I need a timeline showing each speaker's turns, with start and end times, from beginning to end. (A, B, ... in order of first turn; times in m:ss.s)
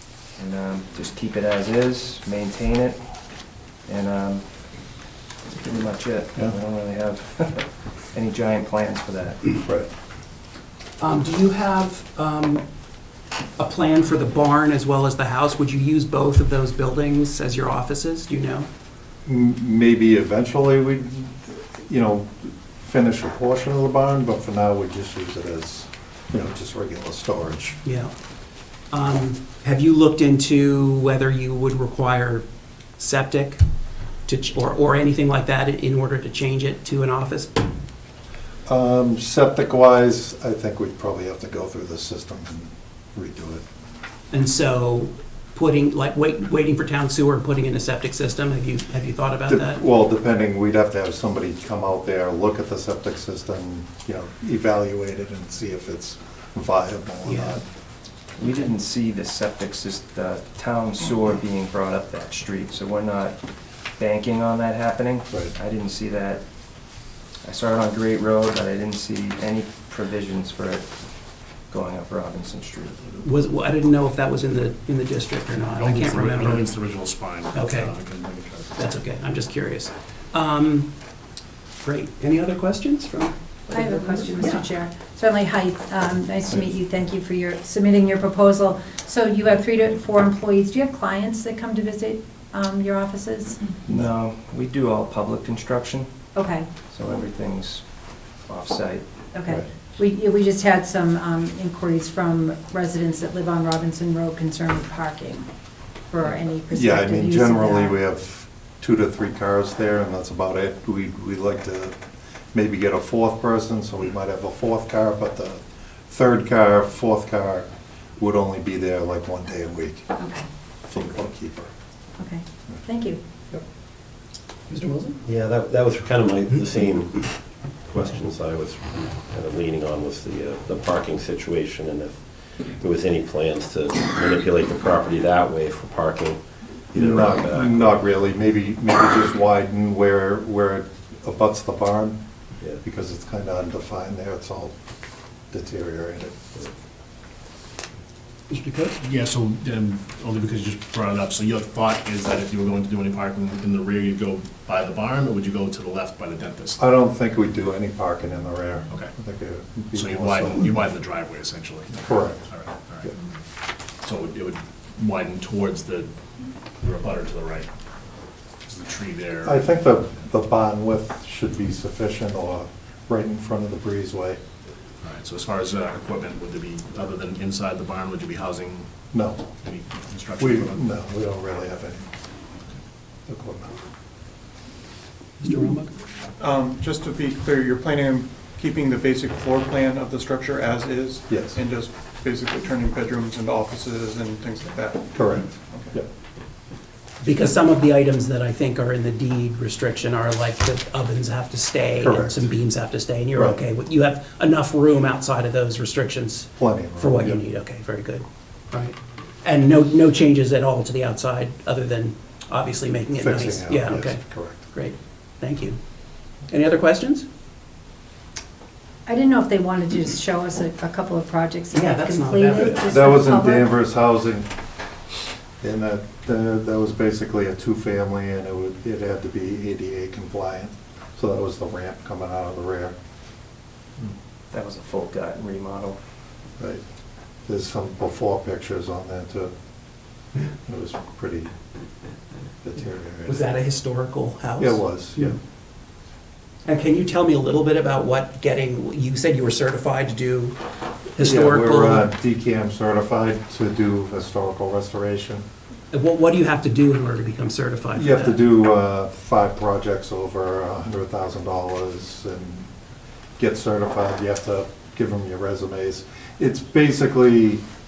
0:00.4-0:03.0 A
0:03.8-0:04.5 A
0:05.5-0:09.4 A
0:11.0-0:12.6 B
0:13.6-0:18.7 B
0:19.2-0:27.8 C
0:27.8-0:28.1 B
0:28.9-0:32.4 B
0:33.0-0:33.6 B
0:34.3-0:37.6 B
0:38.7-0:43.6 C
0:44.3-0:49.8 B
0:49.5-0:57.6 C
0:57.2-0:57.6 B
0:58.4-1:03.4 A
1:04.0-1:06.4 A
1:07.4-1:10.9 A
1:11.7-1:13.2 A
1:13.2-1:16.7 B
1:15.7-1:18.8 D
1:17.5-1:18.0 B
1:18.8-1:20.9 B
1:21.8-1:24.7 B
1:23.7-1:33.7 E
1:33.9-1:36.1 A
1:36.3-1:36.7 E
1:36.9-1:37.8 A
1:38.4-1:39.0 A
1:39.3-1:45.5 E
1:46.1-1:48.0 E
1:46.7-1:52.0 C
1:52.5-2:00.2 C
2:00.2-2:00.4 E
2:00.9-2:01.7 C
2:02.2-2:03.2 E
2:04.7-2:05.2 B
2:05.3-2:12.1 F
2:12.8-2:16.3 F
2:16.9-2:22.2 C
2:17.0-2:17.8 F
2:22.8-2:24.8 C
2:25.5-2:26.7 C
2:28.5-2:28.9 B
2:28.8-2:36.8 D
2:36.8-2:40.8 C
2:39.9-2:43.1 D
2:42.0-2:42.5 C
2:44.0-2:46.1 D
2:46.8-2:47.7 D
2:48.7-2:49.7 D
2:49.4-2:54.4 C
2:55.0-2:58.9 D
2:59.1-2:59.4 C
2:59.6-3:00.8 D
3:00.4-3:02.1 C
3:03.3-3:03.8 C
3:05.4-3:05.9 B
3:06.4-3:15.9 G
3:11.3-3:11.6 C
3:15.2-3:16.1 C
3:17.2-3:35.8 B
3:22.0-3:22.5 C
3:26.6-3:27.4 C
3:33.1-3:34.7 C
3:36.5-3:37.2 B
3:39.1-3:43.7 E
3:41.7-3:42.8 B
3:42.6-3:44.5 C
3:45.6-3:52.9 C
3:54.5-3:56.0 A
3:57.4-3:59.5 C
4:00.6-4:01.5 C
4:02.6-4:03.4 C
4:03.2-4:05.3 B
4:04.6-4:05.4 C
4:06.7-4:10.6 B
4:11.1-4:12.1 B
4:11.2-4:15.4 C
4:15.9-4:18.4 B
4:18.0-4:22.7 C
4:23.4-4:27.6 C